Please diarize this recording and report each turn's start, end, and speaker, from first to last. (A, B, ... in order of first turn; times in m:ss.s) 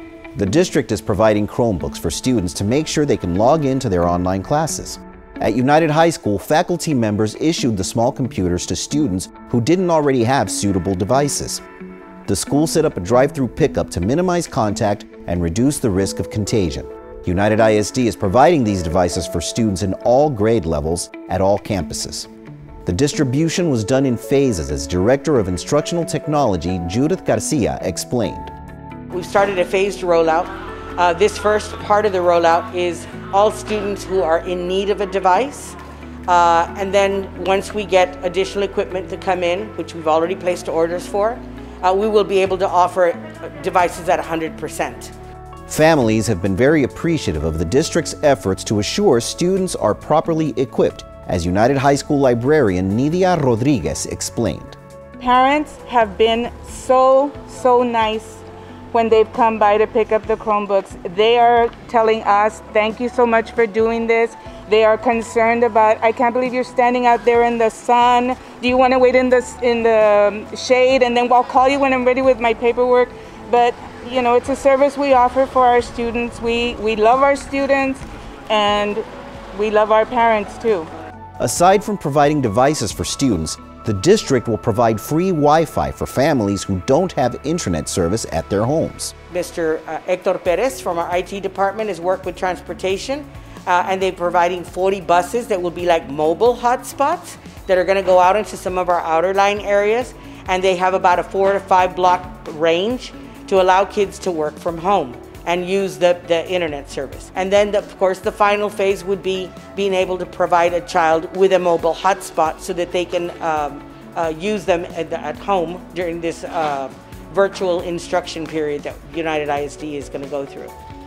0:00.3-0:11.6 A
0:12.3-0:22.3 A
0:22.8-0:28.5 A
0:29.1-0:35.8 B
0:36.3-0:45.1 B
0:45.7-0:54.8 A
0:55.2-1:20.9 C
1:21.4-1:29.1 A
1:29.3-2:00.7 B